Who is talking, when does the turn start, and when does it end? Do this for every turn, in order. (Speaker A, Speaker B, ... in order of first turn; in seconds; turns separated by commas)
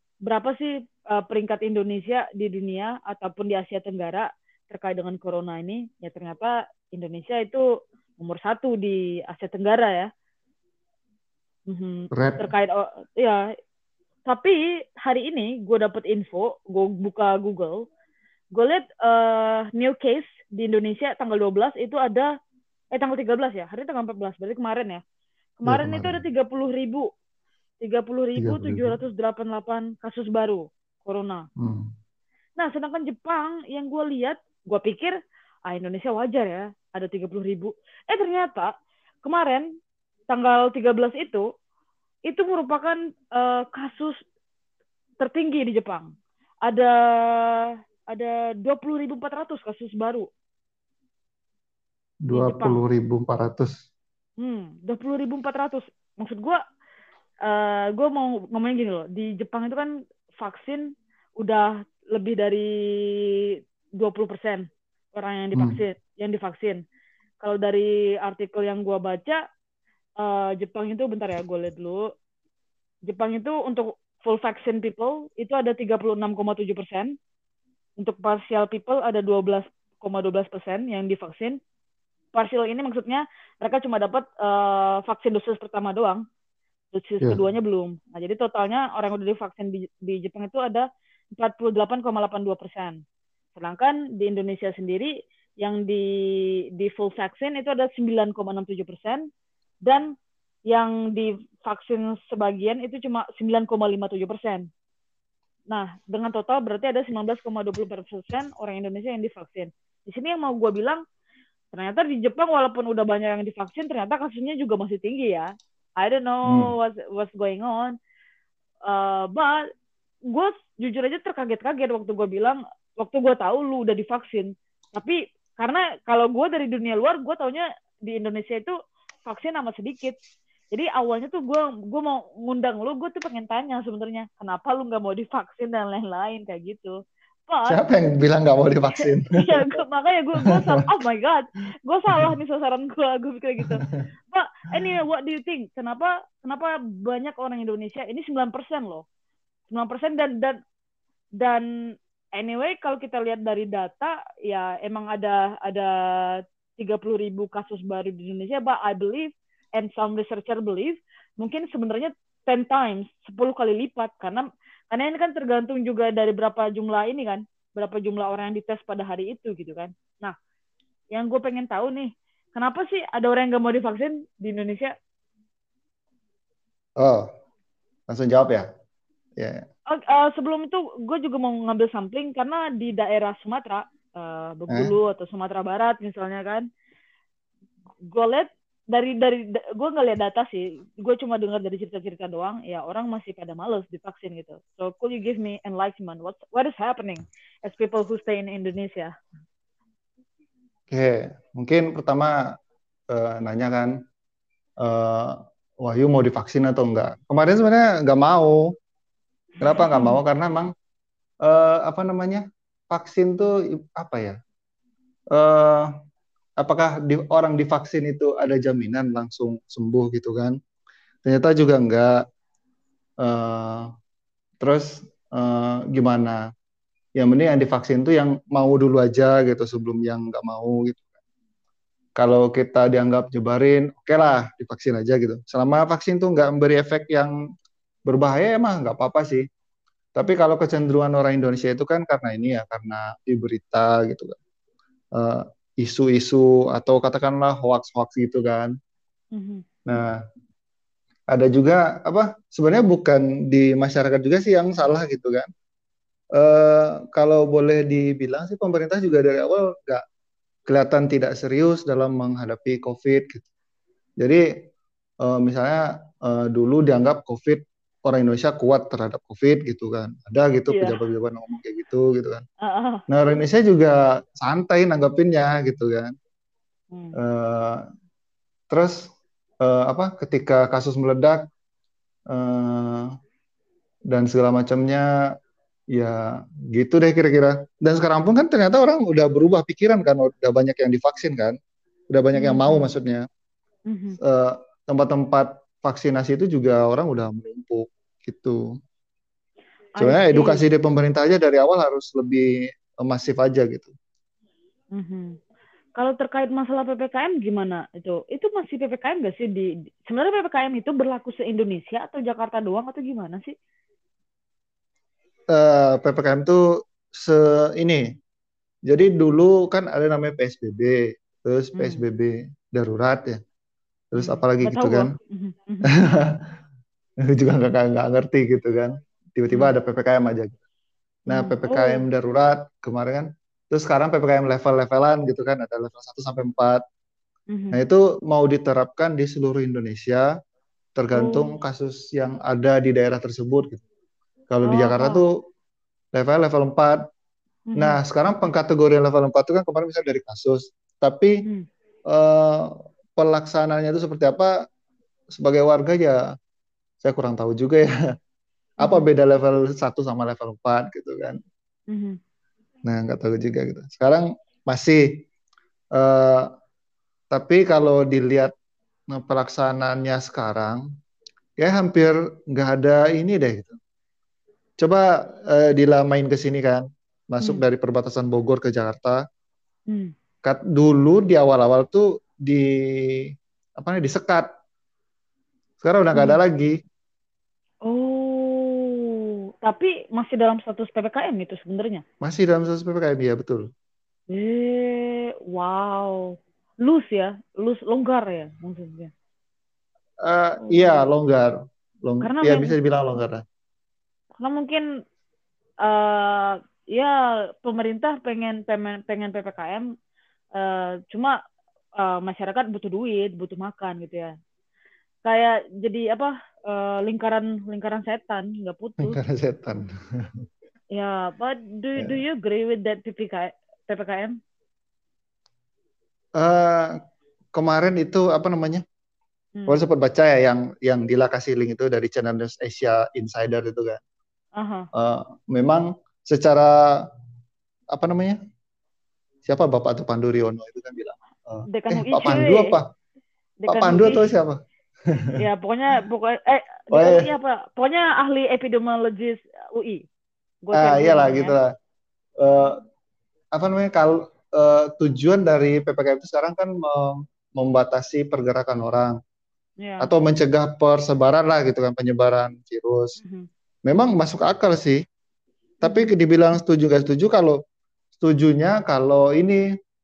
Speaker A: 0.2-7.6, Speaker A: 8.2-10.1, Speaker A: 11.7-13.4, Speaker B: 12.1-12.5, Speaker A: 14.2-17.8, Speaker A: 18.5-22.3, Speaker A: 22.9-25.0, Speaker A: 25.6-27.1, Speaker B: 25.7-26.2, Speaker A: 27.8-31.4, Speaker B: 28.4-29.0, Speaker B: 31.6-31.9, Speaker A: 32.6-35.1, Speaker A: 35.7-38.7, Speaker A: 39.2-39.7, Speaker A: 40.3-41.4, Speaker A: 42.3-44.2, Speaker A: 45.2-46.1, Speaker A: 46.6-50.3, Speaker B: 52.2-53.8, Speaker A: 52.3-52.8, Speaker A: 54.4-56.6, Speaker A: 57.4-63.4, Speaker A: 64.0-66.8, Speaker B: 65.5-65.8, Speaker A: 67.4-69.4, Speaker A: 70.2-72.1, Speaker A: 73.1-77.2, Speaker A: 78.0-81.6, Speaker A: 82.3-86.2, Speaker A: 86.9-90.9, Speaker A: 91.4-93.0, Speaker A: 93.5-95.1, Speaker A: 95.6-96.0, Speaker A: 96.8-99.3, Speaker A: 99.9-100.1, Speaker A: 100.7-104.7, Speaker A: 105.7-111.0, Speaker A: 111.7-115.5, Speaker A: 116.0-117.9, Speaker A: 118.9-119.6, Speaker A: 120.3-128.7, Speaker A: 129.2-130.2, Speaker A: 130.7-137.0, Speaker A: 137.5-137.8, Speaker B: 137.7-139.7, Speaker A: 139.4-149.0, Speaker B: 140.4-140.8, Speaker B: 143.6-144.0, Speaker A: 149.7-150.6, Speaker A: 151.4-151.7, Speaker A: 152.3-170.3, Speaker A: 171.1-174.9, Speaker B: 177.0-177.3, Speaker B: 178.1-178.7, Speaker B: 179.4-179.7, Speaker A: 179.9-186.7, Speaker A: 188.1-199.1, Speaker B: 200.9-202.6, Speaker B: 203.1-204.0, Speaker B: 204.8-208.7, Speaker B: 209.6-210.7, Speaker A: 209.6-210.2, Speaker B: 211.4-214.4, Speaker B: 215.3-215.9, Speaker B: 216.6-220.6, Speaker B: 221.2-222.2, Speaker B: 223.2-223.9, Speaker B: 224.6-226.4, Speaker B: 227.2-231.0, Speaker B: 232.2-237.3, Speaker B: 238.1-239.4, Speaker B: 240.2-244.4, Speaker B: 245.2-248.7, Speaker A: 249.3-249.6, Speaker B: 249.9-250.2, Speaker B: 251.3-255.5, Speaker B: 256.3-260.0, Speaker B: 260.7-263.4, Speaker B: 264.2-264.4, Speaker B: 265.2-272.4, Speaker A: 270.7-271.0, Speaker A: 272.6-273.0, Speaker B: 273.1-276.1, Speaker B: 277.2-277.8, Speaker B: 278.7-279.1, Speaker B: 279.6-281.5, Speaker B: 282.3-283.1, Speaker B: 284.1-285.1, Speaker B: 285.9-291.6, Speaker B: 292.1-293.2, Speaker A: 292.3-292.9, Speaker A: 293.9-294.2, Speaker B: 294.2-298.6, Speaker A: 300.0-300.6, Speaker B: 300.0-303.9, Speaker A: 304.9-305.4, Speaker A: 306.0-313.5, Speaker B: 315.5-318.0, Speaker B: 318.9-323.4, Speaker A: 321.8-322.0, Speaker B: 324.1-325.1, Speaker A: 324.2-325.9, Speaker B: 325.9-326.4, Speaker B: 327.2-330.6, Speaker B: 331.3-336.8, Speaker A: 331.3-332.0, Speaker A: 337.5-337.8, Speaker B: 337.7-340.3, Speaker B: 341.0-343.8, Speaker A: 341.1-341.6, Speaker B: 344.5-345.4, Speaker A: 344.6-345.2, Speaker B: 346.1-347.0, Speaker A: 347.7-348.0, Speaker B: 347.8-351.4, Speaker B: 352.1-354.6, Speaker B: 355.3-356.2, Speaker B: 357.0-357.9, Speaker B: 358.8-361.4, Speaker A: 358.8-359.1, Speaker A: 361.9-362.2, Speaker B: 362.8-365.2, Speaker B: 365.9-366.5, Speaker B: 367.3-368.5, Speaker B: 369.1-370.8, Speaker B: 371.6-373.8, Speaker B: 374.8-379.2, Speaker B: 380.4-384.5, Speaker B: 385.8-386.8, Speaker A: 386.1-386.4, Speaker A: 387.8-392.0, Speaker B: 392.2-393.7, Speaker A: 394.3-399.1, Speaker B: 400.2-403.4, Speaker A: 400.6-401.1, Speaker A: 402.2-402.8, Speaker A: 404.4-404.8, Speaker A: 405.8-409.9, Speaker A: 410.5-411.3, Speaker A: 412.0-414.3, Speaker A: 415.2-419.2, Speaker B: 419.0-420.4, Speaker A: 420.9-424.4, Speaker B: 426.4-427.0, Speaker B: 427.5-428.8, Speaker A: 429.6-429.9, Speaker B: 429.7-434.0, Speaker A: 434.6-434.9, Speaker B: 434.9-437.1, Speaker B: 437.9-438.4, Speaker B: 439.4-442.9, Speaker A: 441.7-442.8, Speaker A: 443.6-444.2, Speaker B: 443.7-445.4, Speaker A: 445.4-450.0, Speaker B: 446.9-447.3, Speaker A: 450.6-451.6, Speaker B: 450.7-451.7, Speaker B: 452.4-452.8, Speaker B: 453.5-459.2, Speaker A: 459.8-460.1, Speaker B: 460.0-463.2, Speaker A: 463.2-463.5, Speaker B: 463.9-465.0, Speaker B: 465.8-467.6, Speaker A: 465.8-466.1, Speaker B: 468.2-469.6